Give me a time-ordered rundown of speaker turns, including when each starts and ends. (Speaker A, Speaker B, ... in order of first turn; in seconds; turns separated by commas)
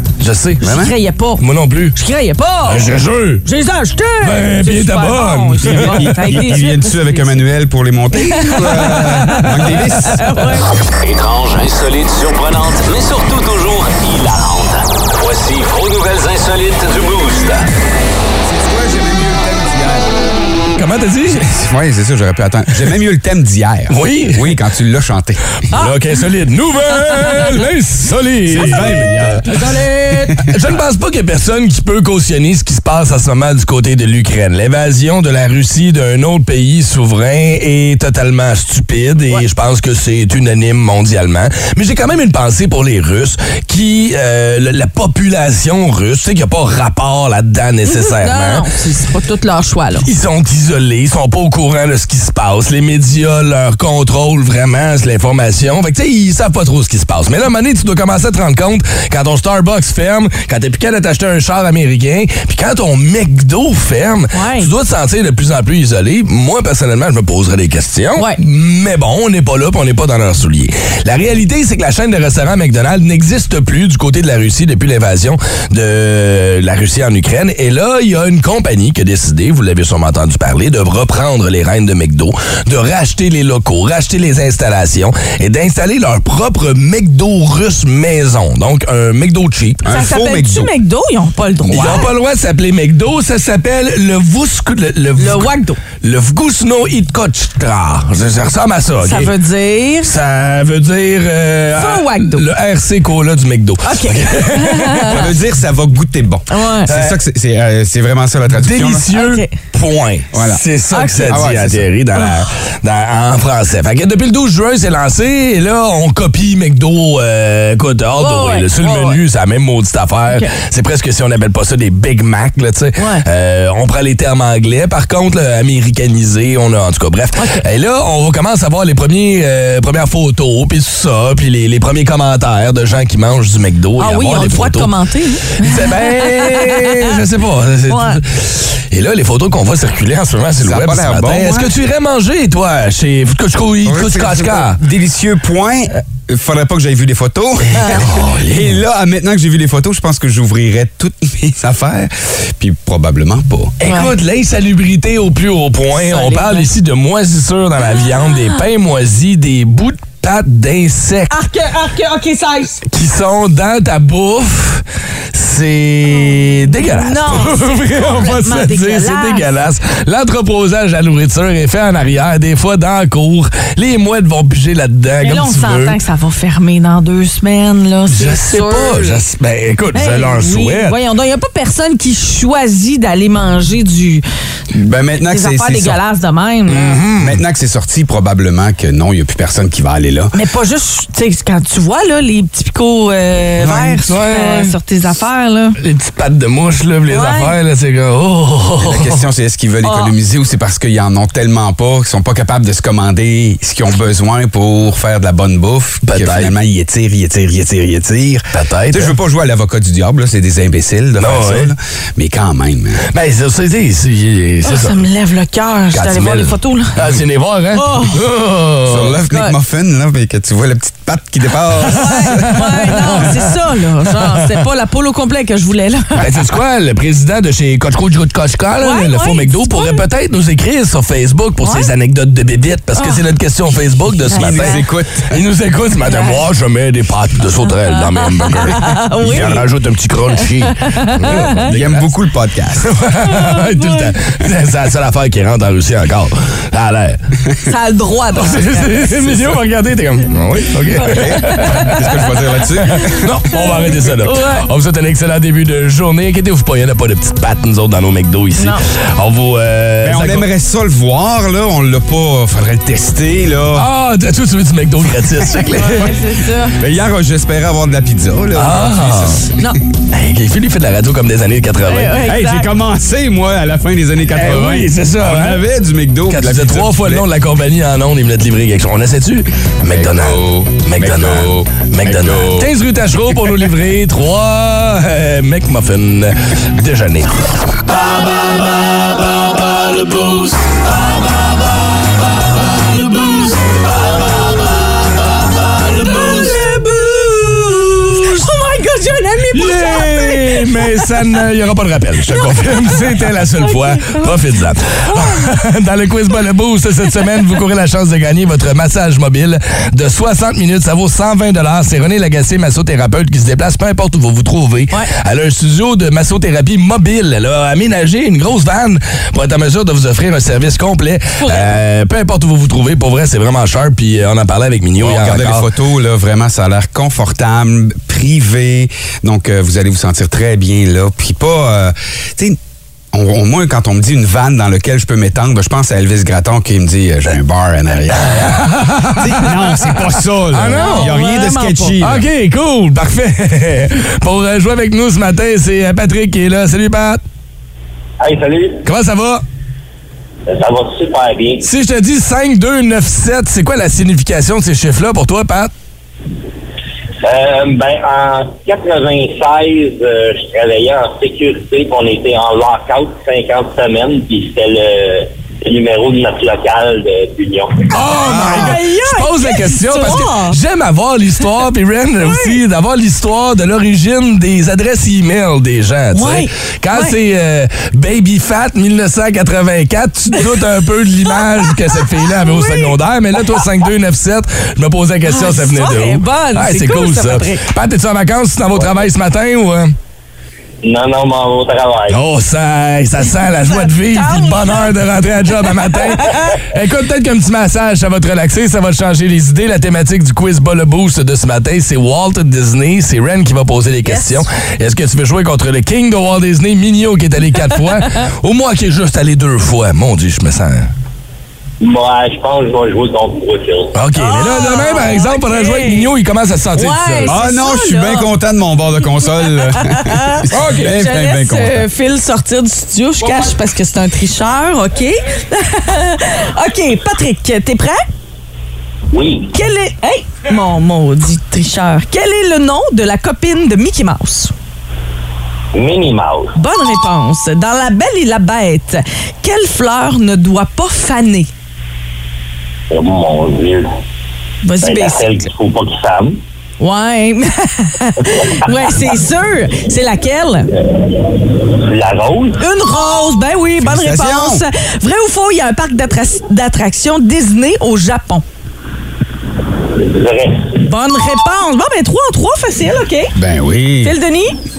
Speaker A: 0.2-0.6, Speaker B: 0.6-0.9, Speaker C: 0.6-1.4, Speaker A: 1.4-1.9, Speaker C: 1.9-2.9, Speaker A: 2.6-3.4, Speaker C: 3.4-7.3, Speaker A: 4.2-6.6, Speaker B: 5.6-10.3, Speaker C: 8.3-10.7, Speaker A: 8.5-10.2, Speaker D: 11.0-17.7, Speaker B: 18.4-20.1, Speaker A: 20.7-21.4, Speaker B: 21.3-25.4, Speaker A: 23.9-24.6, Speaker C: 25.7-26.0, Speaker A: 25.7-29.5, Speaker C: 26.9-27.5, Speaker B: 28.4-29.8, Speaker C: 28.6-30.5, Speaker A: 30.4-48.6, Speaker C: 47.9-50.0, Speaker A: 50.0-89.8, Speaker C: 64.3-64.7, Speaker B: 89.8-90.7, Speaker C: 89.9-92.1, Speaker A: 91.7-99.3, Speaker B: 91.7-92.0, Speaker C: 95.2-95.8, Speaker C: 99.0-100.1, Speaker A: 100.0-105.3, Speaker C: 101.8-102.4, Speaker C: 103.8-105.2, Speaker B: 105.1-109.0, Speaker C: 106.5-106.9, Speaker A: 106.9-107.2, Speaker A: 108.5-134.9, Speaker C: 109.1-109.5, Speaker B: 110.3-110.6, Speaker C: 110.9-111.5, Speaker B: 111.2-111.9, Speaker C: 112.2-112.4, Speaker C: 118.2-119.2, Speaker C: 123.0-123.2, Speaker C: 127.3-127.6, Speaker C: 134.0-137.2, Speaker A: 135.5-144.8, Speaker C: 137.9-138.2, Speaker B: 140.6-141.7, Speaker B: 143.8-153.7, Speaker A: 147.7-148.8, Speaker A: 153.8-161.3, Speaker C: 153.8-154.1, Speaker C: 156.0-156.7, Speaker C: 157.9-158.6, Speaker C: 161.3-162.8, Speaker A: 162.9-176.0, Speaker C: 166.8-169.5, Speaker C: 175.2-179.2, Speaker A: 178.1-181.0, Speaker C: 179.9-184.2, Speaker B: 184.7-186.0, Speaker C: 185.3-187.0, Speaker A: 186.7-187.4, Speaker B: 187.2-190.3, Speaker C: 190.3-195.8, Speaker B: 193.6-194.0, Speaker A: 194.0-194.7, Speaker A: 195.8-199.2, Speaker C: 197.1-197.5, Speaker B: 198.8-213.1, Speaker C: 199.8-200.1, Speaker A: 206.0-206.5, Speaker A: 208.5-209.1, Speaker A: 211.2-211.7, Speaker A: 213.1-215.0, Speaker C: 214.6-216.9, Speaker A: 215.9-219.2, Speaker C: 217.7-218.2, Speaker B: 218.8-223.2, Speaker C: 221.8-226.2, Speaker A: 221.9-223.4, Speaker A: 224.2-224.4, Speaker A: 226.2-242.1, Speaker C: 228.8-230.0, Speaker C: 231.6-231.9, Speaker C: 232.9-233.2, Speaker C: 234.3-234.8, Speaker B: 234.3-235.4, Speaker C: 236.0-236.4, Speaker C: 237.7-239.6, Speaker B: 239.3-239.6, Speaker C: 240.7-241.6, Speaker B: 241.6-242.9, Speaker A: 242.8-247.2, Speaker C: 243.2-244.1, Speaker C: 247.7-249.5, Speaker A: 248.3-252.1, Speaker C: 250.9-252.1, Speaker B: 251.1-253.3, Speaker A: 252.8-260.5, Speaker C: 252.9-254.6, Speaker B: 260.0-263.9, Speaker A: 263.7-266.1, Speaker B: 265.4-266.1, Speaker C: 265.7-266.8, Speaker B: 266.7-269.7, Speaker A: 268.5-269.4, Speaker A: 270.1-272.2, Speaker C: 271.9-272.7, Speaker B: 272.2-277.3, Speaker A: 274.3-275.6, Speaker A: 276.3-291.4, Speaker B: 279.8-282.7, Speaker A: 293.0-293.9, Speaker A: 295.8-298.4, Speaker C: 296.0-296.9, Speaker C: 298.1-301.1, Speaker A: 299.5-325.6, Speaker C: 302.3-304.4, Speaker C: 305.1-305.5, Speaker C: 321.4-321.7, Speaker B: 325.0-332.6, Speaker B: 333.1-342.3, Speaker A: 338.1-341.2, Speaker C: 340.7-342.0, Speaker A: 342.0-347.2, Speaker E: 348.2-348.8, Speaker A: 348.8-349.4, Speaker E: 350.5-351.6, Speaker A: 351.6-355.7, Speaker E: 357.2-367.9, Speaker A: 367.9-389.9, Speaker C: 367.9-370.6, Speaker B: 368.1-368.8, Speaker C: 372.2-372.6, Speaker C: 376.1-377.1, Speaker C: 380.3-380.6, Speaker C: 381.3-382.9, Speaker C: 385.2-387.6, Speaker E: 390.8-392.2, Speaker A: 392.1-410.9, Speaker C: 393.3-394.9, Speaker C: 395.5-396.6, Speaker C: 404.0-404.4, Speaker E: 411.8-413.9, Speaker A: 413.9-417.4, Speaker C: 414.1-416.1, Speaker C: 416.8-418.3, Speaker B: 417.2-421.9, Speaker C: 419.5-428.0, Speaker A: 420.5-420.9, Speaker E: 429.1-429.5, Speaker C: 429.5-434.5, Speaker E: 435.7-436.5, Speaker C: 436.6-441.5, Speaker E: 442.9-443.9, Speaker C: 444.6-445.4, Speaker E: 444.8-446.4, Speaker C: 446.8-450.7, Speaker E: 450.9-452.6, Speaker C: 452.6-458.4, Speaker B: 453.8-454.6, Speaker E: 459.9-460.8, Speaker C: 460.8-463.3, Speaker B: 463.4-464.1, Speaker C: 464.0-464.6